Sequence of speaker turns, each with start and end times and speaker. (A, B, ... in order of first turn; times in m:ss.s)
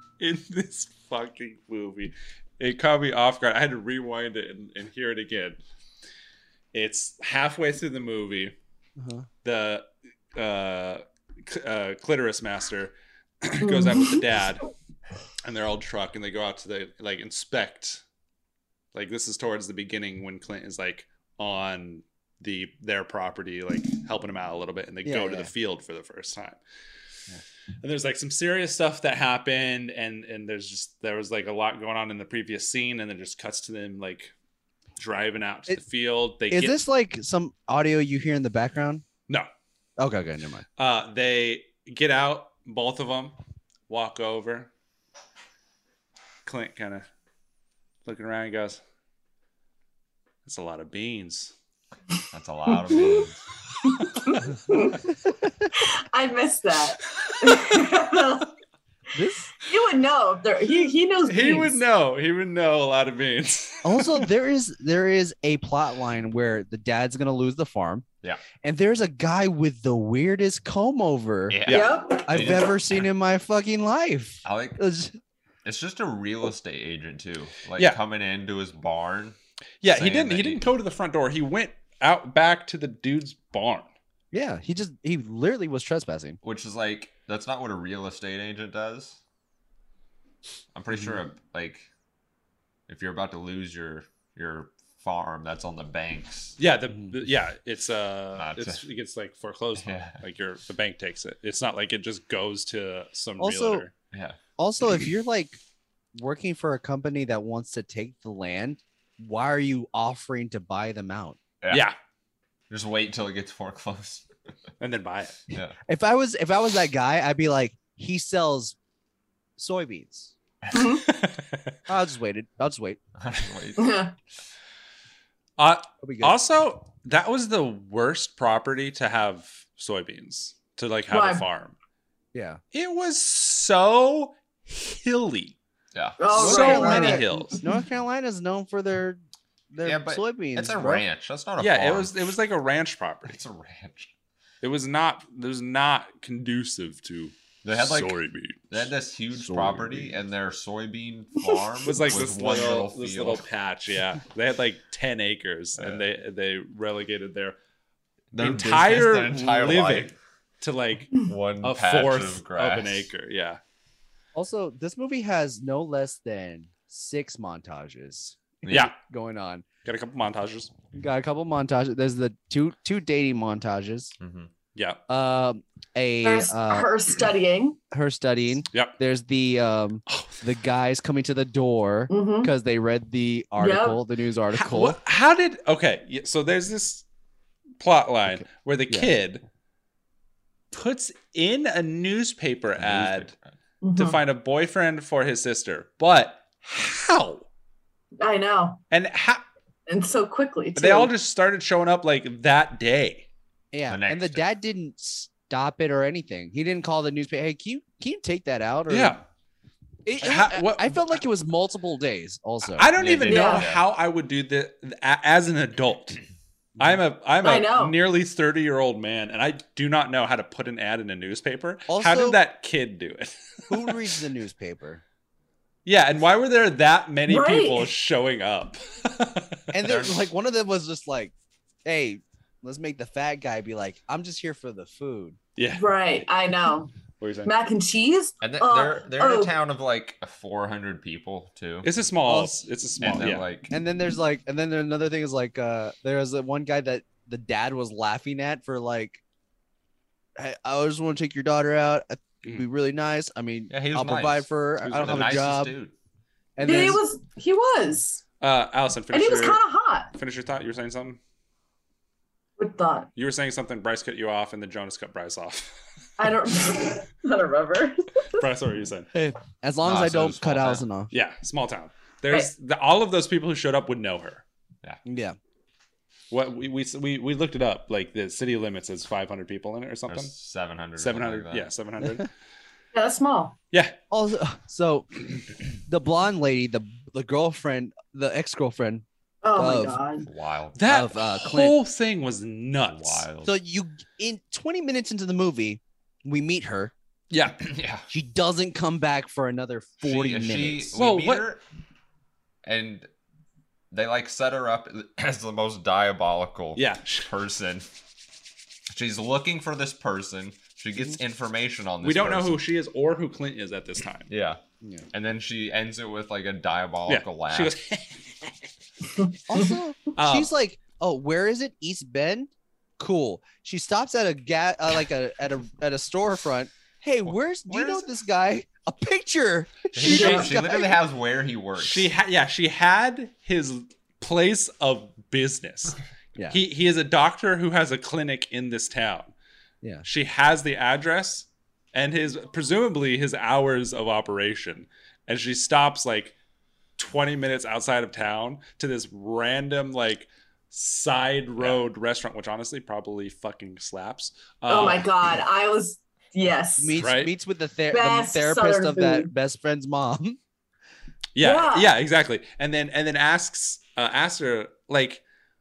0:00.2-0:05.6 A
0:06.7-0:08.6 A
0:09.0-0:09.3 B
0:09.4-0:14.7 A
0:13.6-0:14.2 C
0:15.4-0:18.0 A
0:18.9-0:26.6 A
0:25.0-0:25.5 B
0:27.8-0:34.3 A
0:35.0-0:36.8 A
0:36.5-0:39.0 B
0:40.0-0:40.7 B
0:40.8-0:43.4 A
0:43.9-0:44.7 A
0:46.4-0:47.0 A
0:48.0-0:48.8 A
0:50.4-0:51.5 A
0:52.3-0:53.4 D
0:52.7-0:53.3 C
0:53.8-0:55.0 C
0:55.7-0:58.5 C
0:57.5-0:57.9 A
0:59.1-0:59.5 B
0:59.4-1:01.8 C
1:01.3-1:04.3 A
1:03.8-1:08.1 B
1:08.6-1:15.2 B
1:11.5-1:13.0 D
1:11.7-1:12.3 C
1:14.4-1:14.8 D
1:15.6-1:19.4 D
1:19.8-1:23.9 A
1:19.9-1:20.6 D
1:24.3-1:26.4 B
1:26.4-1:29.2 D
1:30.7-1:31.9 D
1:30.9-1:31.2 B
1:32.9-1:36.6 D
1:36.6-1:43.9 A
1:38.4-1:38.8 D
1:39.8-1:40.2 D
1:43.4-1:43.9 B
1:44.1-1:44.4 D
1:44.6-1:45.6 B
1:46.2-1:51.4 B
1:51.6-1:51.9 D
1:51.7-1:52.0 A
1:52.7-1:54.3 D
1:54.8-1:55.4 A
1:55.5-1:55.8 D
1:55.9-1:58.8 B
1:59.6-2:00.3 B
2:00.7-2:01.0 C
2:00.8-2:01.8 A
2:01.9-2:03.0 B
2:03.2-2:04.0 D
2:03.8-2:04.1 C
2:05.6-2:11.8 A
2:06.0-2:06.4 B
2:11.1-2:11.5 C
2:12.3-2:12.6 B
2:12.7-2:15.6 A
2:15.9-2:17.2 D
2:16.2-2:17.8 C
2:16.3-2:19.2 B
2:16.3-2:17.6 A
2:19.7-2:21.0 B
2:19.8-2:22.2 D
2:21.6-2:23.4 A
2:23.3-2:24.1 D
2:24.6-2:28.9 A
2:27.6-2:28.2 D
2:28.7-2:33.4 D
2:29.3-2:30.2 B
2:31.8-2:37.6 A
2:35.8-2:36.0 D
2:38.3-2:40.2 D
2:38.4-2:43.6 A
2:41.2-2:43.1 D
2:44.4-2:49.6 B
2:48.6-2:48.9 D
2:49.8-2:50.7 A
2:50.9-2:54.1 B
2:54.2-2:54.5 D
2:54.8-2:55.0 A
2:55.1-2:56.9 B
2:56.2-2:57.8 C
2:57.9-3:05.0 B
3:00.1-3:00.4 A
3:02.1-3:02.5 C
3:03.6-3:04.0 C
3:04.5-3:07.0 A
3:07.8-3:09.4 A
3:08.3-3:09.2 B
3:10.7-3:13.3 A
3:12.8-3:13.4 D
3:13.8-3:14.2 C
3:14.0-3:17.5 A
3:18.2-3:18.8 C
3:18.9-3:19.4 A
3:19.9-3:21.1 C
3:20.8-3:23.3 A
3:23.7-3:29.2 B
3:23.9-3:24.4 D
3:28.9-3:29.2 A
3:30.0-3:32.9 B
3:30.2-3:31.2 A
3:32.8-3:36.2 A
3:32.9-3:33.9 D
3:33.2-3:33.7 C
3:36.8-3:44.0 A
3:37.4-3:38.0 C
3:41.9-3:42.4 B
3:43.7-3:45.0 B
3:45.8-3:49.6 A
3:47.3-3:47.9 C
3:49.7-3:51.3 B
3:49.8-3:50.3 D
3:51.8-3:55.4 B
3:55.6-3:55.9 A
3:55.8-3:56.9 C
3:57.2-3:57.5 A
3:57.5-3:59.5 C
3:58.4-4:01.9 D
4:01.8-4:03.5 A
4:02.2-4:02.6 B
4:03.0-4:03.7 D
4:03.7-4:09.2 B
4:10.4-4:15.7 B
4:13.7-4:16.0 D
4:14.8-4:15.3 A
4:16.6-4:17.0 B
4:16.6-4:18.2 C
4:18.4-4:19.6 A
4:19.1-4:20.1 C
4:20.1-4:21.2 A
4:22.6-4:23.1 C
4:23.2-4:25.7 A
4:26.2-4:28.4 C
4:28.3-4:29.1 A
4:29.1-4:31.1 B
4:29.8-4:30.8 D
4:31.1-4:34.4 A
4:35.0-4:35.4 B
4:36.3-4:40.3 A
4:40.1-4:41.7 D
4:41.0-4:42.3 A
4:42.9-4:43.6 C
4:43.7-4:44.0 A
4:44.1-4:45.1 B
4:45.9-4:49.0 B
4:49.4-4:50.3 C
4:49.6-4:50.0 B
4:50.3-4:51.1 D
4:50.8-4:53.3 A
4:50.9-4:51.8 B
4:52.8-4:53.6 D
4:53.4-4:56.9 B
4:57.3-4:57.6 A
4:57.6-4:58.1 D
4:58.1-5:01.0 B
5:00.0-5:01.6 D
5:01.0-5:01.4 A
5:02.6-5:03.1 D
5:03.9-5:07.9 D
5:06.8-5:07.3 A
5:08.9-5:12.6 D
5:12.0-5:14.3 A
5:14.3-5:14.6 D
5:14.8-5:15.1 B
5:15.1-5:17.8 D
5:17.1-5:18.7 A
5:19.2-5:19.7 C
5:19.5-5:31.0 B
5:20.2-5:20.5 A
5:27.2-5:28.1 D
5:29.9-5:32.1 D
5:30.1-5:30.5 C
5:31.8-5:36.0 A
5:36.5-5:39.3 A
5:40.0-5:46.4 A
5:47.0-5:55.1 A
5:54.7-5:57.0 C
5:56.8-6:00.4 B
5:57.0-5:57.3 A
5:57.9-5:59.3 C
6:01.4-6:05.2 A
6:01.4-6:01.9 C